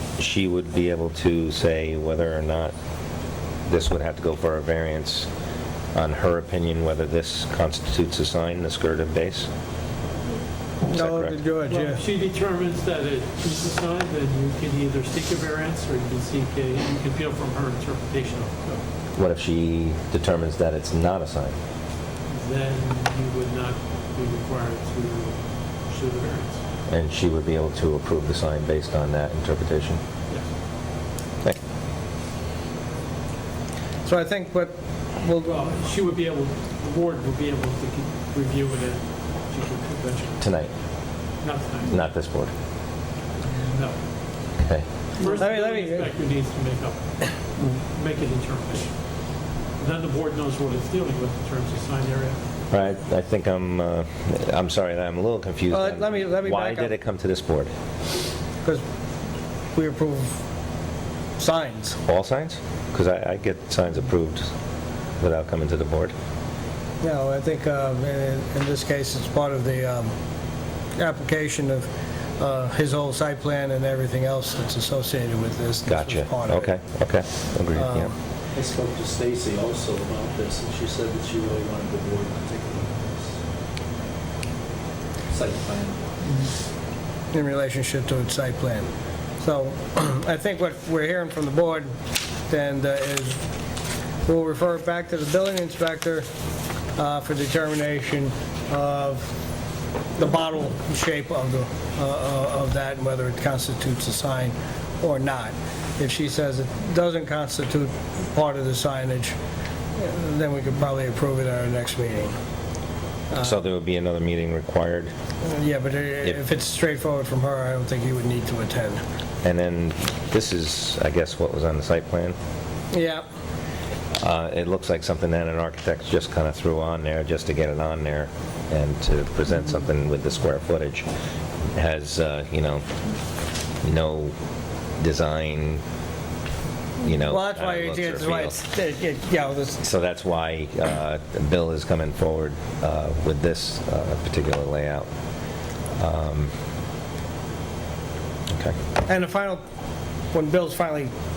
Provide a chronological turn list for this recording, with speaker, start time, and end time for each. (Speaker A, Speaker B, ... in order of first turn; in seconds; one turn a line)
Speaker A: 0.2-2.7
Speaker A: 3.7-5.3
Speaker A: 5.9-9.5
Speaker B: 10.9-12.0
Speaker A: 10.9-11.4
Speaker C: 11.7-18.8
Speaker A: 19.1-21.5
Speaker C: 22.3-26.6
Speaker A: 26.9-30.0
Speaker B: 34.0-35.7
Speaker C: 35.5-40.4
Speaker A: 40.4-40.7
Speaker C: 41.4-41.9
Speaker A: 41.9-42.5
Speaker C: 43.7-44.0
Speaker A: 44.6-44.9
Speaker C: 45.2-47.0
Speaker B: 45.2-46.1
Speaker C: 47.6-48.9
Speaker C: 49.8-52.4
Speaker A: 52.7-57.7
Speaker B: 55.7-56.9
Speaker B: 59.7-60.3
Speaker B: 61.4-62.0
Speaker A: 62.0-64.5
Speaker A: 65.2-66.1
Speaker B: 67.0-70.1
Speaker B: 71.0-71.9
Speaker B: 72.4-76.7
Speaker A: 75.9-78.1
Speaker B: 77.8-78.1
Speaker D: 78.5-83.3
Speaker D: 85.3-86.2
Speaker B: 87.3-88.9
Speaker B: 89.4-91.9
Speaker B: 92.5-93.4
Speaker B: 94.2-96.2
Speaker B: 97.0-99.3
Speaker B: 100.2-109.3
Speaker B: 110.0-112.3
Speaker B: 113.3-113.6
Speaker A: 113.4-115.1
Speaker B: 115.4-119.0
Speaker A: 119.4-122.3
Speaker B: 122.9-123.2
Speaker A: 124.2-131.1
Speaker A: 131.8-132.8
Speaker A: 133.8-134.3
Speaker A: 135.0-135.8
Speaker A: 137.0-138.6
Speaker B: 137.3-139.8
Speaker A: 139.8-145.1
Speaker A: 146.0-146.5
Speaker B: 149.1-149.6
Speaker B: 150.3-151.1